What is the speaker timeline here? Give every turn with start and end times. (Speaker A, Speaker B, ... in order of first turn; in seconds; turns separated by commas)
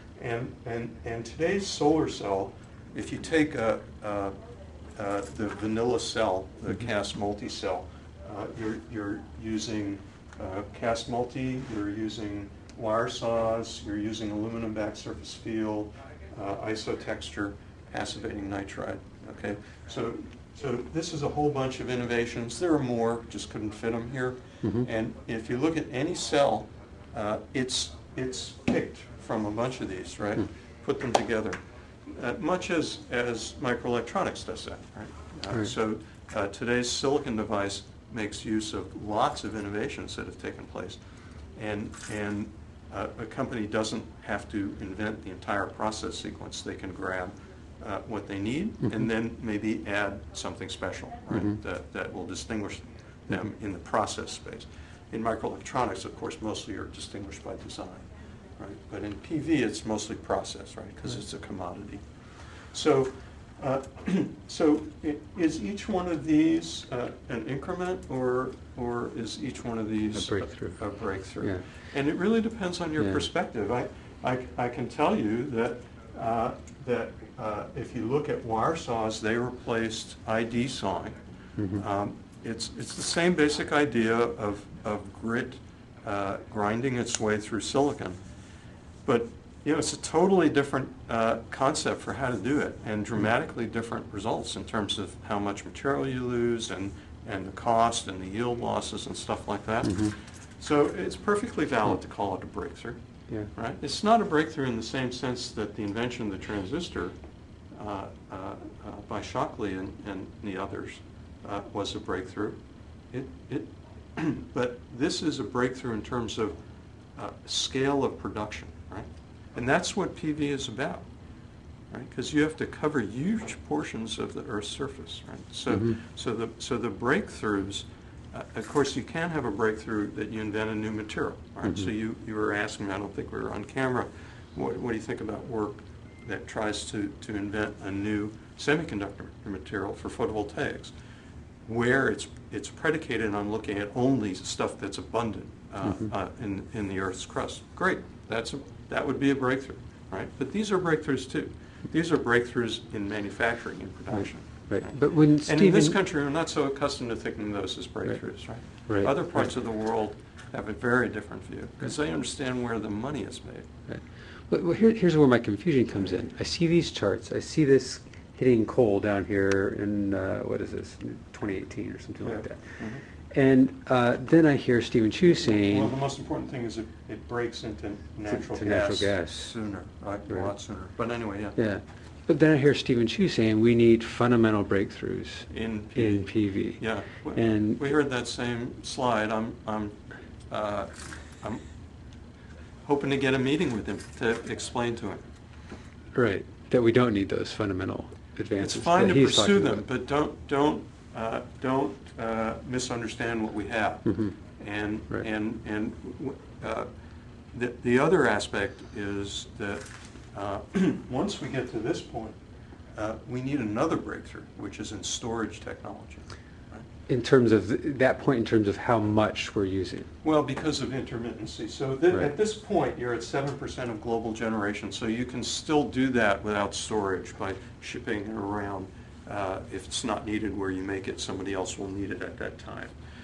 Speaker A: 0.1-4.3, Speaker A: 5.0-41.0, Speaker A: 41.5-58.1, Speaker A: 58.6-81.2, Speaker B: 70.1-70.8, Speaker B: 73.0-73.2, Speaker B: 81.6-81.8, Speaker A: 81.7-88.2, Speaker A: 89.0-103.0, Speaker B: 99.8-100.1, Speaker A: 103.5-107.2, Speaker A: 107.7-112.6, Speaker A: 113.1-116.5, Speaker A: 117.2-121.1, Speaker A: 121.9-140.9, Speaker B: 125.7-126.0, Speaker B: 131.6-131.9, Speaker A: 141.7-163.7, Speaker B: 145.8-146.1, Speaker B: 154.1-156.0, Speaker B: 158.1-159.5, Speaker B: 163.9-172.7, Speaker A: 172.2-173.0, Speaker B: 173.3-175.9, Speaker A: 175.2-181.6, Speaker B: 178.3-179.6, Speaker B: 181.6-187.8, Speaker A: 185.5-191.6, Speaker A: 192.8-195.2, Speaker B: 196.2-199.8, Speaker A: 198.6-206.9, Speaker B: 204.1-204.4, Speaker A: 207.5-212.4, Speaker A: 212.9-216.8, Speaker B: 217.1-220.1, Speaker A: 220.2-233.0